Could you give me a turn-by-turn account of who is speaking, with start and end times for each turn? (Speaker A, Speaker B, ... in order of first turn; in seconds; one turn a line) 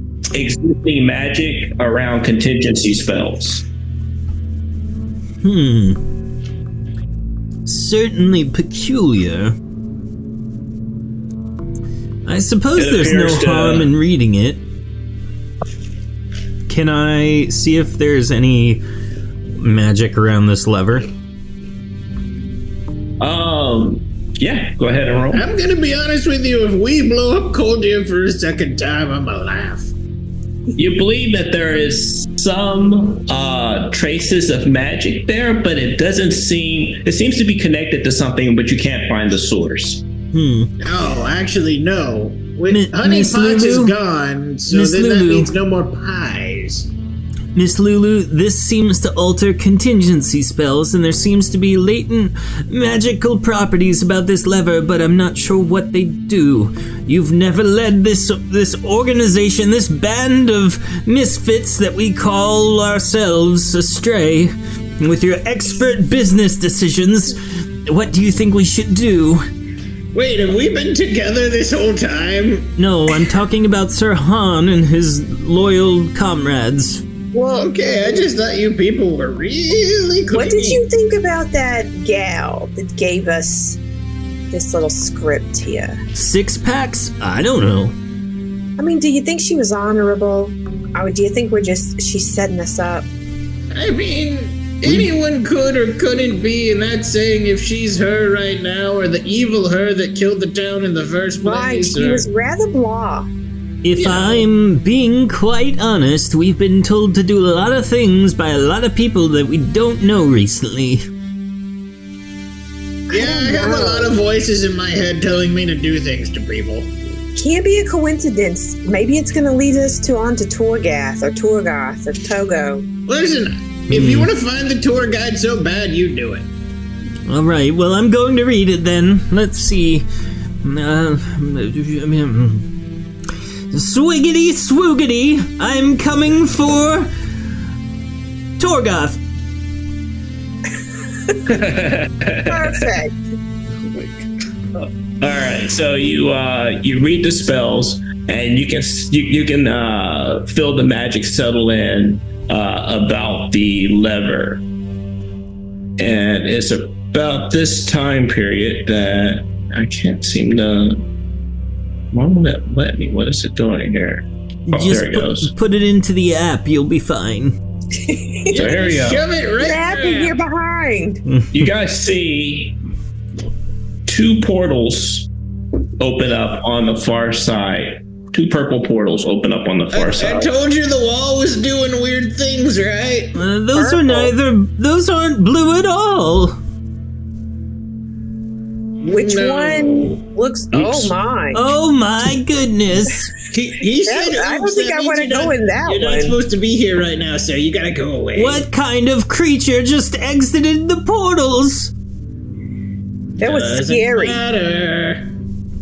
Speaker A: 0.3-3.6
Speaker B: 5.4-6.0
Speaker B: 7.7-9.6
Speaker B: 12.2-14.6
Speaker A: 12.8-13.9
Speaker C: 16.7-18.8
Speaker C: 19.6-21.1
Speaker A: 23.2-25.4
Speaker D: 25.3-29.9
Speaker A: 30.8-40.0
Speaker B: 40.3-40.7
Speaker D: 40.8-46.9
Speaker B: 42.7-44.0
Speaker B: 44.7-45.5
Speaker B: 47.5-69.4
Speaker D: 70.1-72.7
Speaker B: 72.8-77.0
Speaker E: 77.3-78.2
Speaker D: 77.5-80.8
Speaker E: 80.3-83.8
Speaker E: 84.5-86.0
Speaker B: 86.2-88.0
Speaker E: 88.8-93.1
Speaker D: 93.7-102.2
Speaker E: 101.4-103.3
Speaker B: 103.8-111.0
Speaker D: 104.0-104.5
Speaker E: 113.1-114.2
Speaker D: 113.1-116.9
Speaker E: 117.4-122.9
Speaker D: 123.1-126.5
Speaker B: 123.9-124.3
Speaker B: 127.3-130.1
Speaker B: 130.6-132.7
Speaker B: 133.7-137.1
Speaker B: 138.6-139.2
Speaker A: 141.5-142.9
Speaker E: 142.5-143.2
Speaker A: 144.8-154.6
Speaker A: 156.0-161.0
Speaker A: 162.1-165.5
Speaker B: 164.7-167.6
Speaker E: 168.1-168.6
Speaker D: 168.5-170.4
Speaker A: 168.5-169.2
Speaker E: 169.6-171.2
Speaker A: 171.5-172.8
Speaker A: 174.1-175.3
Speaker A: 176.0-180.5
Speaker D: 179.9-183.4
Speaker B: 183.3-186.6
Speaker E: 183.8-184.3
Speaker D: 189.0-190.2
Speaker E: 189.1-191.7
Speaker D: 190.7-191.1
Speaker B: 191.5-193.3
Speaker D: 193.5-198.7
Speaker E: 194.1-196.4
Speaker B: 198.3-201.9
Speaker D: 203.4-205.2
Speaker E: 203.4-204.4